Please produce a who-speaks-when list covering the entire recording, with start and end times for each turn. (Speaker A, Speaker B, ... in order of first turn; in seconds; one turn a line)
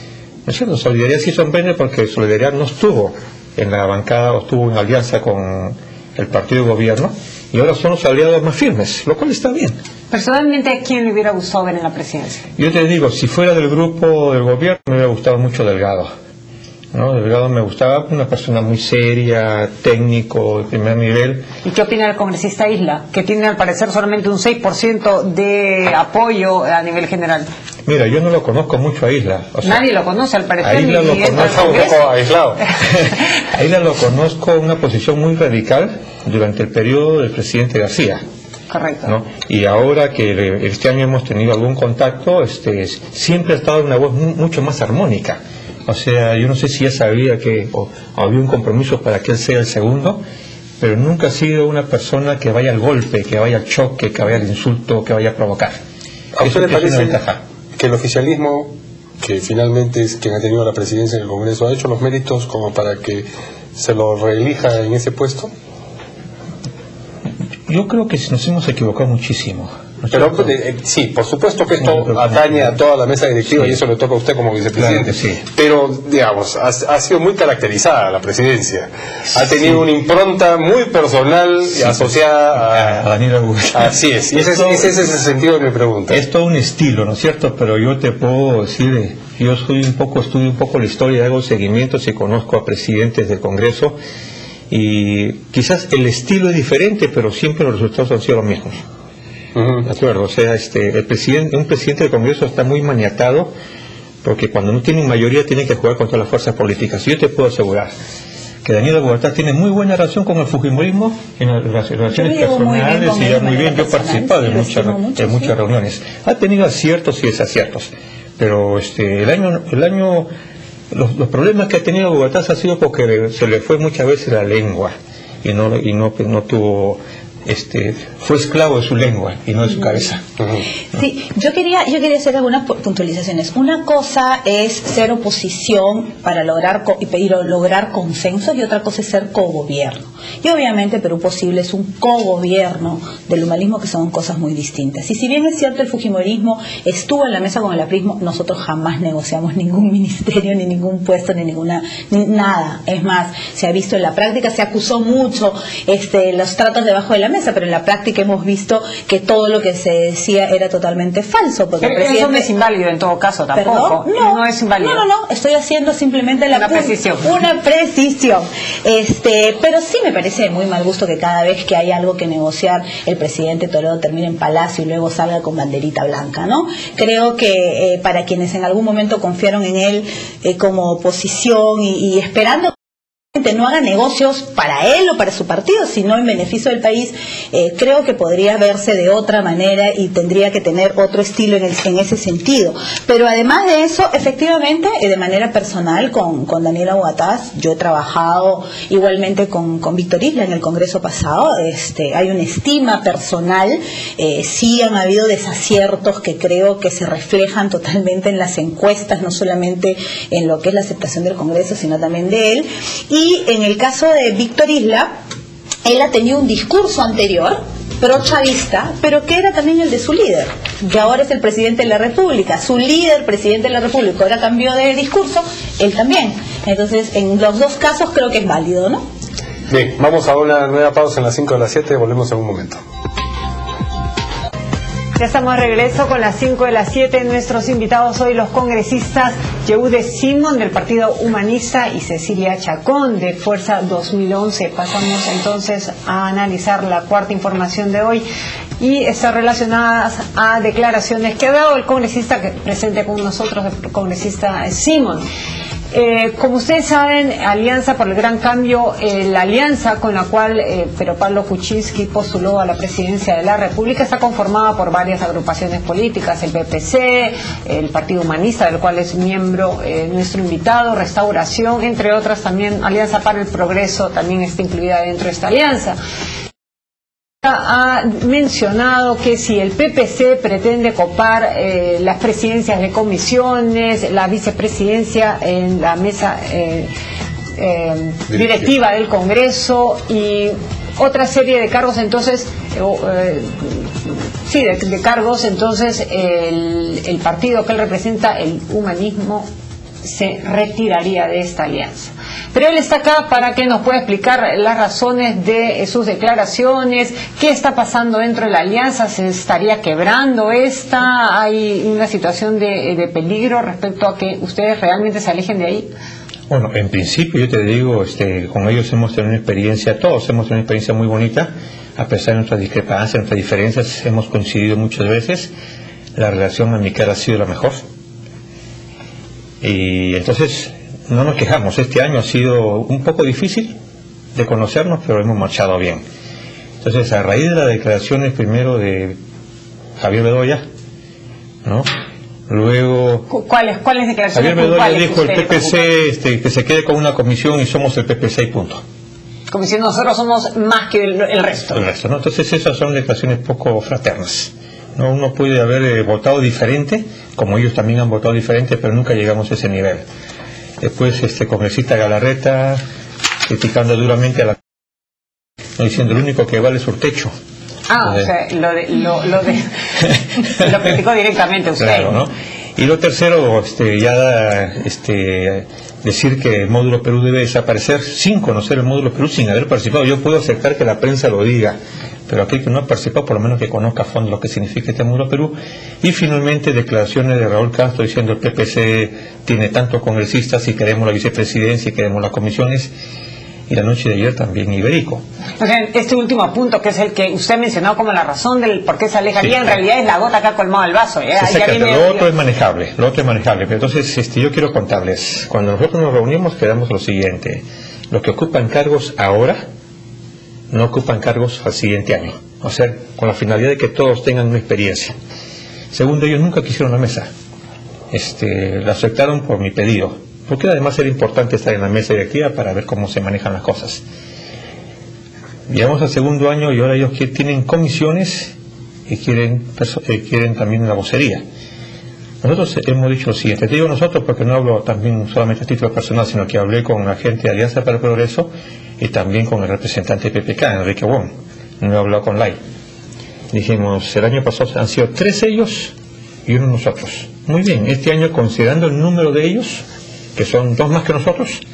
Speaker A: 0.5-9.8
Speaker B: 10.1-12.4
Speaker A: 12.6-16.1
Speaker A: 16.9-21.5
Speaker B: 21.6-27.5
Speaker A: 27.9-29.8
Speaker B: 29.6-32.0
Speaker A: 30.6-31.9
Speaker C: 31.3-32.6
Speaker A: 33.0-38.2
Speaker B: 38.7-39.1
Speaker A: 39.0-50.2
Speaker A: 50.8-55.8
Speaker C: 56.3-57.2
Speaker A: 56.4-57.4
Speaker C: 57.8-65.5
Speaker A: 67.7-70.5
Speaker C: 70.1-83.0
Speaker A: 71.8-72.7
Speaker A: 73.5-73.8
Speaker A: 74.8-75.4
Speaker A: 79.3-79.8
Speaker A: 81.8-84.9
Speaker C: 83.7-86.2
Speaker A: 86.1-94.0
Speaker A: 94.7-98.8
Speaker C: 99.5-99.9
Speaker A: 99.8-103.5
Speaker A: 104.2-107.9
Speaker A: 108.6-120.3
Speaker D: 112.1-115.5
Speaker A: 120.9-130.2
Speaker D: 130.9-162.5
Speaker B: 161.8-165.0
Speaker D: 163.5-182.7
Speaker B: 166.5-167.3
Speaker D: 183.3-215.1
Speaker D: 215.8-229.0
Speaker C: 229.7-232.8
Speaker B: 235.2-248.2
Speaker B: 248.8-255.2
Speaker B: 255.9-276.0
Speaker B: 277.4-286.9
Speaker B: 287.6-299.5
Speaker B: 300.0-315.9
Speaker A: 316.5-325.5
Speaker A: 326.1-327.8
Speaker A: 329.6-333.7
Speaker A: 334.3-336.0
Speaker A: 336.8-339.2
Speaker A: 340.0-340.6
Speaker A: 342.5-343.3
Speaker B: 343.3-345.8
Speaker A: 344.3-348.8
Speaker B: 349.5-351.8
Speaker A: 351.7-360.0
Speaker A: 360.8-362.8
Speaker A: 363.4-364.6
Speaker A: 365.8-367.3
Speaker B: 367.9-369.7
Speaker B: 370.4-372.2
Speaker A: 371.8-392.9
Speaker A: 393.7-395.2
Speaker B: 395.6-402.3
Speaker A: 401.4-409.6
Speaker A: 410.7-415.1
Speaker A: 415.9-417.3
Speaker A: 418.1-424.0
Speaker A: 425.7-428.5
Speaker A: 429.1-431.4
Speaker A: 432.4-442.6
Speaker A: 443.5-445.9
Speaker A: 446.4-449.8
Speaker A: 450.4-451.6